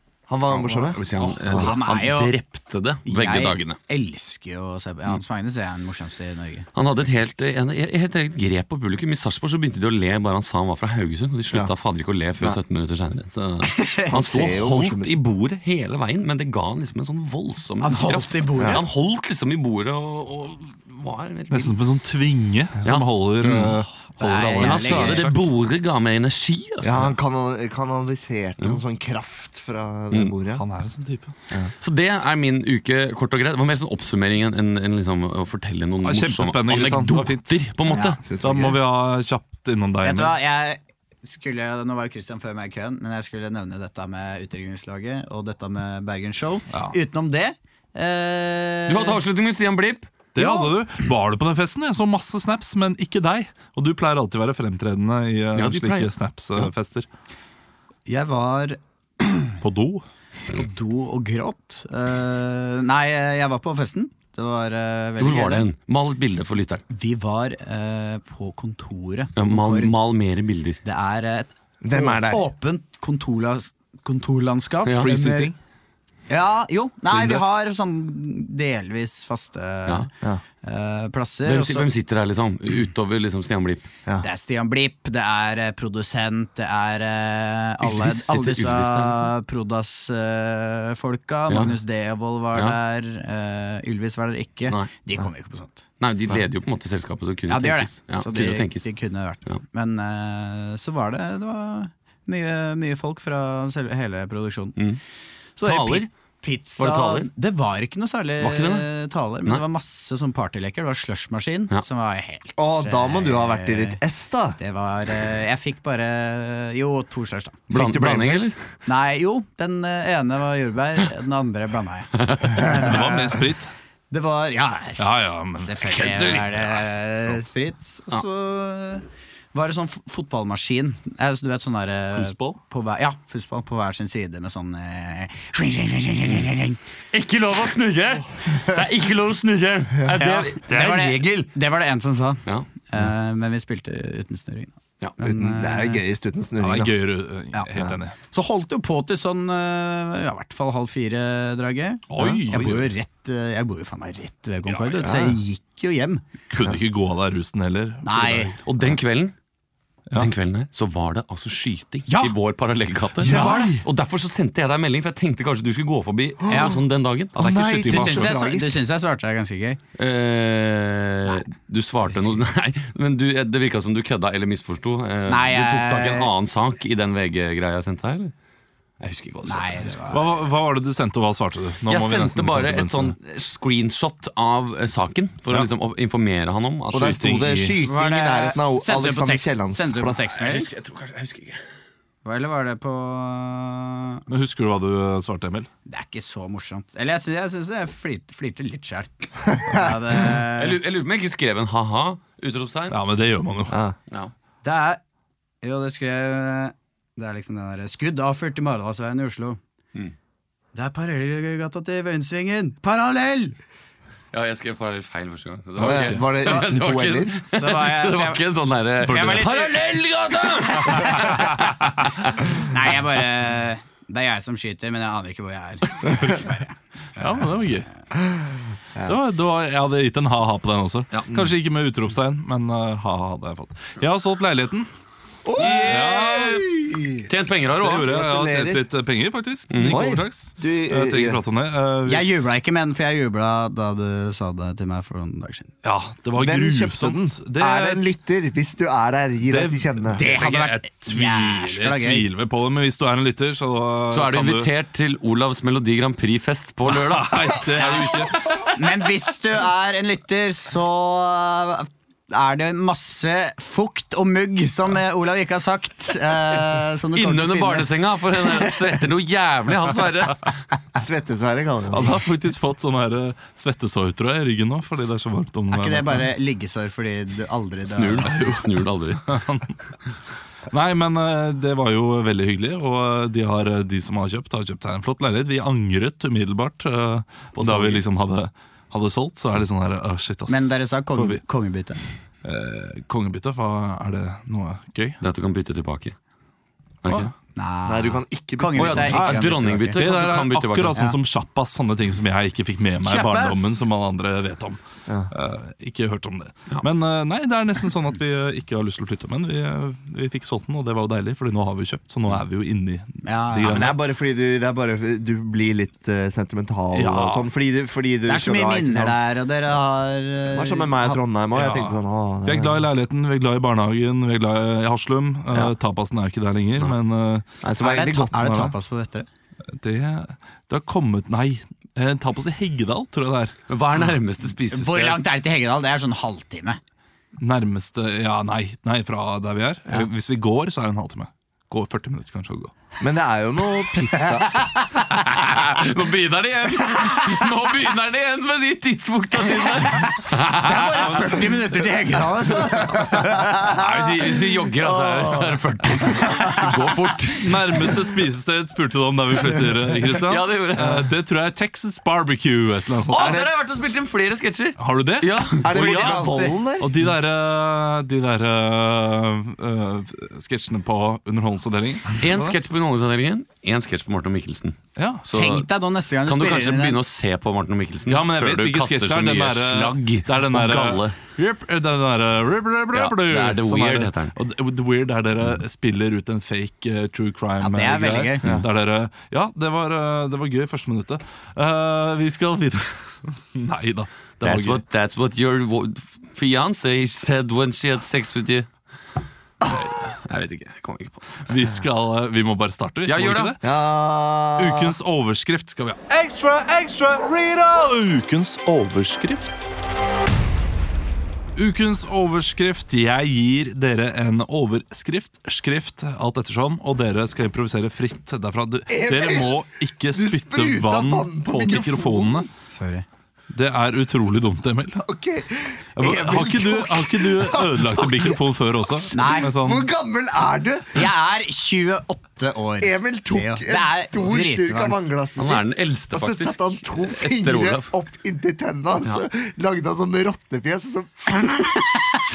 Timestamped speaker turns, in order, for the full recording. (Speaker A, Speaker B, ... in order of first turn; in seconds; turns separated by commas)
Speaker A: 0.3-1.6, Speaker B: 0.5-3.8, Speaker C: 1.4-2.3, Speaker C: 3.1-6.7, Speaker B: 6.8-21.8, Speaker C: 13.7-14.5, Speaker A: 14.1-15.1, Speaker C: 17.8-18.8, Speaker D: 21.5-25.4, Speaker B: 22.8-23.8, Speaker A: 23.4-23.9, Speaker C: 24.2-25.3, Speaker B: 24.5-27.1, Speaker A: 26.8-30.6, Speaker D: 30.5-31.3, Speaker B: 31.8-38.2, Speaker D: 36.0-37.6, Speaker A: 37.9-38.8, Speaker C: 37.9-38.2, Speaker D: 38.4-40.4, Speaker C: 40.0-49.2, Speaker B: 48.9-50.1, Speaker D: 50.4-57.1, Speaker C: 50.4-50.7, Speaker B: 55.5-56.7, Speaker C: 58.1-59.6, Speaker D: 59.6-60.0, Speaker C: 60.5-65.7, Speaker B: 65.2-66.8, Speaker C: 66.9-70.0, Speaker B: 69.4-70.8, Speaker C: 70.8-75.5, Speaker A: 71.8-72.5, Speaker D: 75.0-75.6, Speaker C: 76.3-80.1, Speaker A: 77.1-77.4, Speaker C: 80.6-81.9, Speaker B: 81.5-83.9, Speaker C: 84.2-95.8, Speaker B: 87.8-89.3, Speaker B: 91.5-91.8, Speaker B: 96.0-98.9, Speaker C: 97.5-104.8, Speaker C: 105.6-114.0, Speaker B: 105.6-106.1, Speaker B: 106.8-107.3, Speaker B: 108.4-108.9, Speaker A: 112.6-114.6, Speaker C: 114.6-117.7, Speaker A: 117.7-118.5, Speaker B: 117.7-118.6, Speaker C: 118.9-123.4, Speaker B: 122.2-122.7, Speaker D: 122.6-123.7, Speaker C: 124.1-136.8, Speaker D: 125.0-125.8, Speaker B: 125.8-126.7, Speaker D: 132.1-132.6, Speaker B: 137.1-141.5, Speaker C: 140.1-146.0, Speaker A: 145.2-147.0, Speaker D: 146.6-148.2, Speaker C: 148.3-156.2, Speaker D: 152.1-152.9, Speaker A: 155.0-155.4, Speaker D: 156.5-158.6, Speaker C: 158.0-158.6, Speaker B: 158.7-159.3, Speaker B: 160.1-168.2, Speaker C: 162.1-162.4, Speaker A: 163.2-163.8, Speaker D: 163.3-163.8, Speaker A: 166.4-166.7, Speaker C: 166.5-166.8, Speaker A: 167.3-168.8, Speaker D: 167.6-168.2, Speaker C: 167.9-169.8, Speaker B: 170.0-178.3, Speaker C: 175.3-176.3, Speaker B: 179.0-180.0, Speaker C: 179.5-180.3, Speaker D: 180.1-183.2, Speaker B: 181.9-187.3, Speaker A: 186.9-190.3, Speaker D: 187.0-187.8, Speaker C: 187.8-190.7, Speaker B: 190.3-191.6, Speaker C: 192.2-194.2, Speaker D: 194.3-195.7, Speaker C: 195.9-200.8, Speaker A: 199.7-199.9, Speaker B: 200.6-203.0, Speaker D: 202.9-203.8, Speaker A: 203.7-204.0, Speaker C: 204.6-205.0, Speaker C: 205.6-209.6, Speaker C: 210.7-213.6, Speaker B: 214.3-222.6, Speaker A: 215.8-217.4, Speaker C: 216.3-216.7, Speaker C: 217.5-218.4, Speaker C: 219.0-219.9, Speaker C: 220.6-221.6, Speaker C: 222.7-227.4, Speaker D: 227.2-227.9, Speaker A: 228.9-229.2, Speaker D: 229.1-234.9, Speaker A: 235.4-237.3, Speaker D: 235.7-236.7, Speaker B: 235.7-236.0, Speaker B: 237.3-238.2, Speaker D: 237.8-242.3, Speaker A: 238.0-238.9, Speaker B: 239.7-240.0, Speaker A: 239.9-241.4, Speaker C: 242.1-245.7, Speaker D: 245.8-248.0, Speaker A: 246.4-250.2, Speaker D: 249.5-254.7, Speaker C: 250.2-252.3, Speaker B: 254.1-258.2, Speaker D: 256.9-258.7, Speaker C: 258.7-267.9, Speaker B: 267.1-270.6, Speaker A: 270.9-272.2, Speaker D: 271.9-276.3, Speaker C: 275.7-278.5, Speaker B: 277.9-279.4, Speaker D: 278.2-278.7, Speaker D: 279.2-279.7, Speaker D: 280.7-291.4, Speaker A: 287.6-288.1, Speaker C: 290.5-292.0, Speaker D: 292.4-295.2, Speaker B: 295.2-296.1, Speaker B: 297.0-297.3, Speaker C: 297.6-300.0, Speaker A: 297.9-299.4, Speaker B: 298.8-301.0, Speaker D: 299.1-299.4, Speaker D: 299.9-304.8, Speaker C: 303.0-303.8, Speaker A: 305.1-305.3, Speaker D: 305.3-314.0, Speaker C: 313.2-313.9, Speaker A: 313.6-319.2, Speaker D: 316.9-317.5, Speaker C: 318.3-321.2, Speaker A: 320.5-322.9, Speaker D: 321.5-327.5, Speaker A: 327.6-328.7, Speaker C: 327.8-329.3, Speaker D: 328.3-328.7, Speaker D: 329.7-333.6, Speaker B: 333.7-335.2, Speaker C: 334.7-336.8, Speaker D: 337.4-342.7, Speaker A: 343.0-344.6, Speaker C: 344.1-345.0, Speaker B: 345.2-351.4, Speaker C: 349.8-354.0, Speaker A: 352.2-353.3, Speaker B: 353.7-357.9, Speaker A: 355.1-355.4, Speaker D: 357.4-363.5, Speaker B: 360.2-361.0, Speaker B: 363.1-366.2, Speaker A: 363.2-363.5, Speaker D: 364.8-366.1, Speaker A: 365.6-367.0, Speaker C: 365.7-366.6, Speaker D: 366.8-372.6, Speaker B: 372.2-375.7, Speaker D: 375.0-375.2, Speaker C: 375.3-377.0, Speaker B: 376.2-381.2, Speaker D: 378.1-394.8, Speaker B: 382.9-384.4, Speaker C: 387.6-388.5, Speaker B: 394.4-398.7, Speaker B: 399.6-401.4, Speaker D: 401.5-403.6, Speaker B: 403.1-403.6, Speaker A: 403.6-405.0, Speaker D: 404.6-409.6, Speaker D: 411.6-422.5, Speaker A: 418.9-422.5, Speaker C: 422.7-423.1, Speaker D: 423.5-425.0, Speaker A: 425.0-431.1, Speaker D: 426.0-429.9, Speaker C: 429.1-429.5, Speaker C: 430.9-435.0, Speaker A: 432.8-441.7, Speaker B: 435.4-437.9